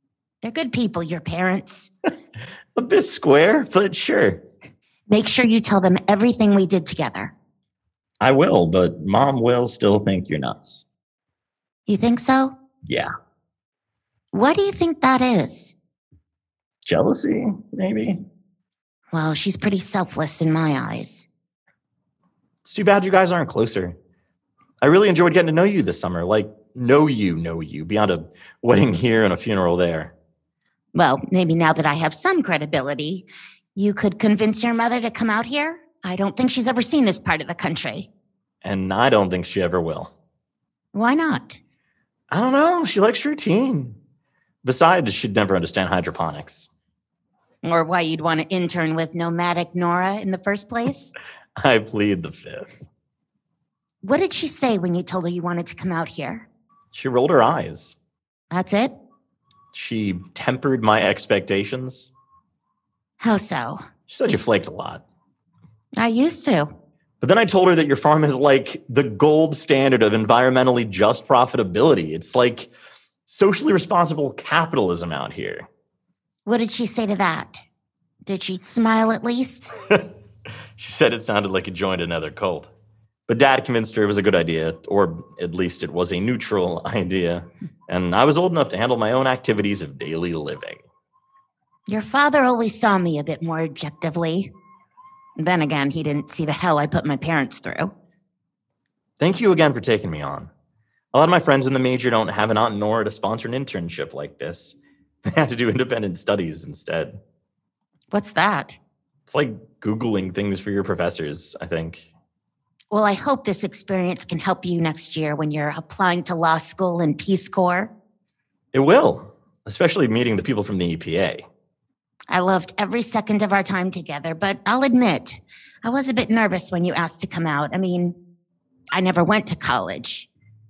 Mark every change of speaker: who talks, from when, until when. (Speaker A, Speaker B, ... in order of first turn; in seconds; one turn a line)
Speaker A: 0.4-1.9
Speaker B: 2.8-4.4
Speaker A: 5.1-7.3
Speaker B: 8.2-10.8
Speaker A: 11.9-12.5
Speaker A: 14.3-15.7
Speaker B: 16.8-18.2
Speaker A: 19.1-21.2
Speaker B: 22.6-23.9
Speaker B: 24.8-30.1
Speaker A: 30.9-38.1
Speaker B: 38.6-40.1
Speaker A: 40.9-41.6
Speaker B: 42.3-44.0
Speaker B: 44.6-46.7
Speaker A: 47.6-51.1
Speaker B: 51.6-52.7
Speaker A: 54.0-56.5
Speaker B: 56.9-58.0
Speaker A: 58.5-58.9
Speaker B: 59.7-62.1
Speaker A: 63.2-63.8
Speaker B: 64.1-65.0
Speaker A: 66.0-66.7
Speaker B: 67.2-72.7
Speaker B: 73.2-75.7
Speaker A: 76.5-77.6
Speaker A: 78.2-79.7
Speaker B: 80.8-82.7
Speaker B: 83.3-90.8
Speaker A: 91.9-94.5
Speaker A: 95.4-97.9
Speaker B: 99.2-100.5
Speaker B: 101.1-104.8
Speaker B: 105.3-107.2
Speaker A: 108.1-108.8
Speaker B: 109.2-112.1
Speaker A: 112.9-117.9
Speaker B: 118.7-121.4
Speaker A: 122.3-128.2
Speaker A: 128.9-130.3